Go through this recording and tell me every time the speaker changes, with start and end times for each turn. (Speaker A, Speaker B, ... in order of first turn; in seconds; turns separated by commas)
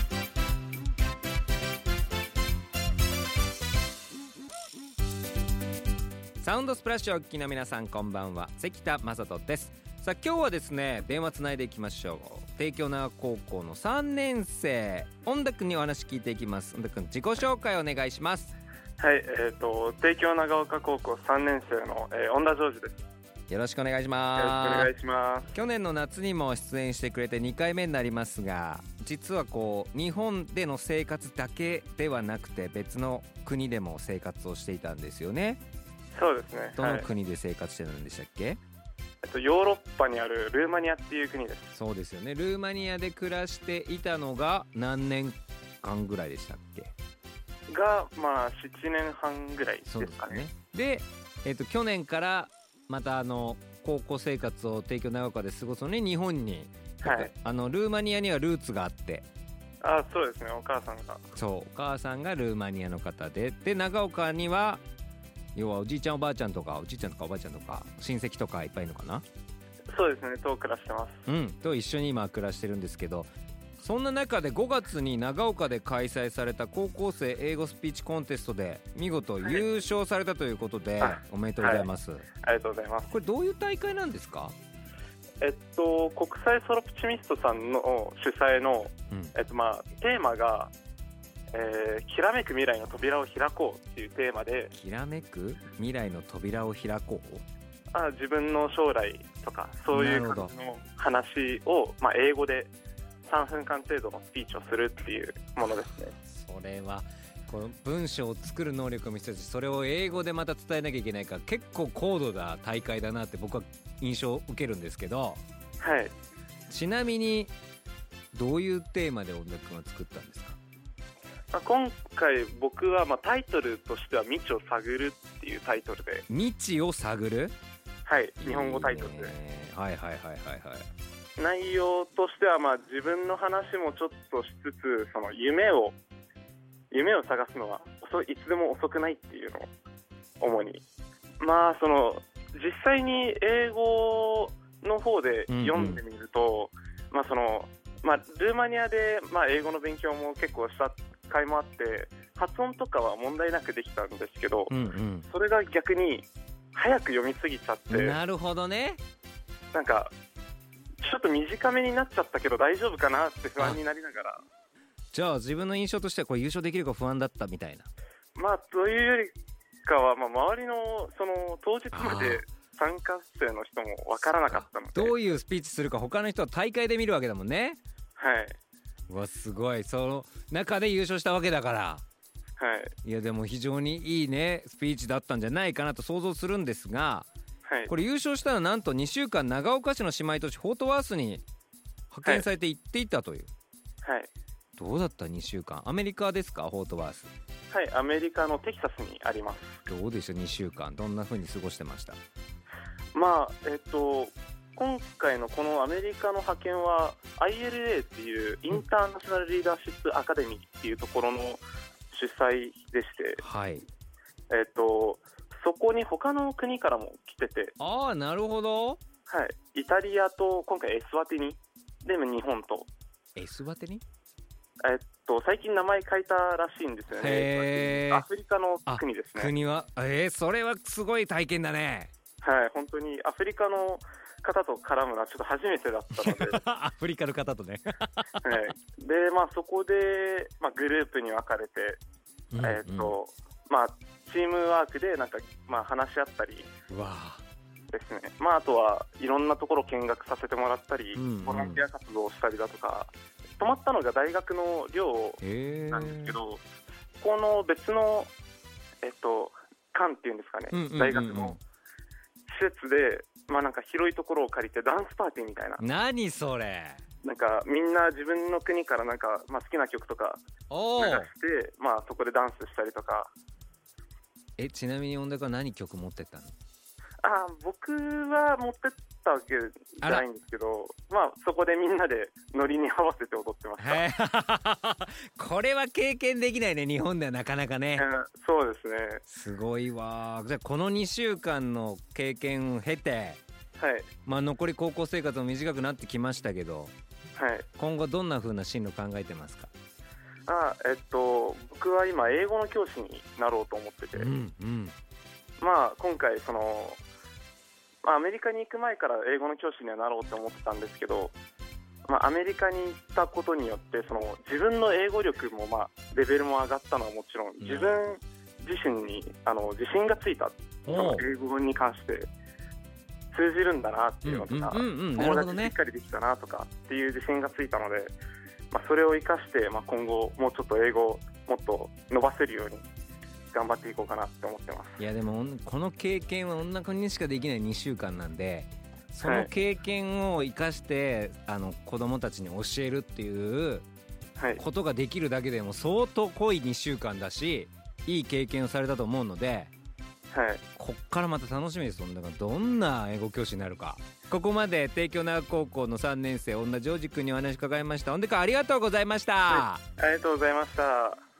Speaker A: 6.4-18.5, Speaker B: 19.0-23.0, Speaker A: 23.5-24.9, Speaker B: 24.4-25.5, Speaker A: 25.5-35.6, Speaker B: 36.1-37.1, Speaker A: 36.8-38.6, Speaker B: 39.2-41.7, Speaker A: 41.7-46.9, Speaker B: 47.7-50.4, Speaker A: 49.9-59.2, Speaker B: 57.0-57.3, Speaker B: 59.8-61.2, Speaker A: 61.3-64.8, Speaker A: 65.5-69.2, Speaker B: 69.9-71.2, Speaker A: 71.2-73.3, Speaker A: 73.8-82.2, Speaker B: 81.0-81.9, Speaker B: 82.4-83.1, Speaker A: 83.1-84.5, Speaker B: 85.4-90.7, Speaker B: 91.5-94.7, Speaker A: 94.7-97.4, Speaker B: 97.9-102.7, Speaker A: 99.9-100.5, Speaker B: 103.3-106.1, Speaker A: 106.2-115.4, Speaker B: 115.8-116.1, Speaker A: 116.7-117.5, Speaker A: 118.3-120.6, Speaker B: 121.5-126.2, Speaker A: 126.3-127.5, Speaker B: 128.1-129.3, Speaker A: 128.4-130.9, Speaker B: 131.4-136.0, Speaker B: 136.9-139.7, Speaker B: 140.4-140.8, Speaker B: 141.4-154.7, Speaker A: 145.5-146.0, Speaker A: 154.7-155.3, Speaker B: 155.3-158.2, Speaker A: 157.9-159.0, Speaker B: 159.7-160.1, Speaker B: 161.0-164.4, Speaker A: 165.1-167.9, Speaker B: 168.3-169.3, Speaker B: 169.8-175.1, Speaker A: 171.9-172.4, Speaker A: 174.5-177.8, Speaker B: 178.2-178.6, Speaker A: 179.1-182.0, Speaker B: 182.6-182.9, Speaker A: 183.0-187.3, Speaker A: 187.9-191.4, Speaker A: 192.1-193.5, Speaker B: 194.0-194.3, Speaker A: 194.8-197.3, Speaker B: 197.7-199.8, Speaker A: 199.9-202.2, Speaker B: 203.1-213.4, Speaker A: 213.4-213.8, Speaker B: 214.5-217.7, Speaker A: 217.8-219.0, Speaker B: 219.3-222.9, Speaker A: 223.3-224.0, Speaker B: 224.8-229.5, Speaker A: 227.1-228.2, Speaker A: 228.9-232.1, Speaker B: 232.4-236.6, Speaker A: 236.2-238.7, Speaker B: 238.4-242.0, Speaker A: 242.5-243.1, Speaker B: 242.6-246.7, Speaker A: 246.9-247.4, Speaker B: 247.9-256.6, Speaker A: 251.1-251.8, Speaker A: 255.4-256.4, Speaker B: 257.2-258.3, Speaker B: 259.0-261.6, Speaker A: 260.7-261.6, Speaker B: 262.5-265.8, Speaker A: 265.8-267.0, Speaker B: 267.2-270.4, Speaker A: 270.7-271.3, Speaker B: 271.0-273.3, Speaker A: 274.6-276.5, Speaker B: 277.2-284.0, Speaker A: 283.8-288.1, Speaker B: 288.0-289.2, Speaker A: 289.3-293.4, Speaker B: 293.8-294.1, Speaker A: 294.2-296.9, Speaker B: 297.4-297.7, Speaker A: 297.8-299.7, Speaker B: 300.5-304.3, Speaker A: 304.1-304.9, Speaker B: 305.6-307.0, Speaker B: 308.0-311.3, Speaker B: 312.1-322.3, Speaker A: 317.6-318.0, Speaker A: 320.9-321.2, Speaker B: 323.3-328.1, Speaker A: 324.2-325.7, Speaker B: 328.7-332.8, Speaker B: 333.5-335.0, Speaker A: 335.0-343.9, Speaker B: 339.2-339.5, Speaker A: 344.6-349.7, Speaker B: 350.3-350.6, Speaker A: 350.8-359.8, Speaker B: 359.5-361.2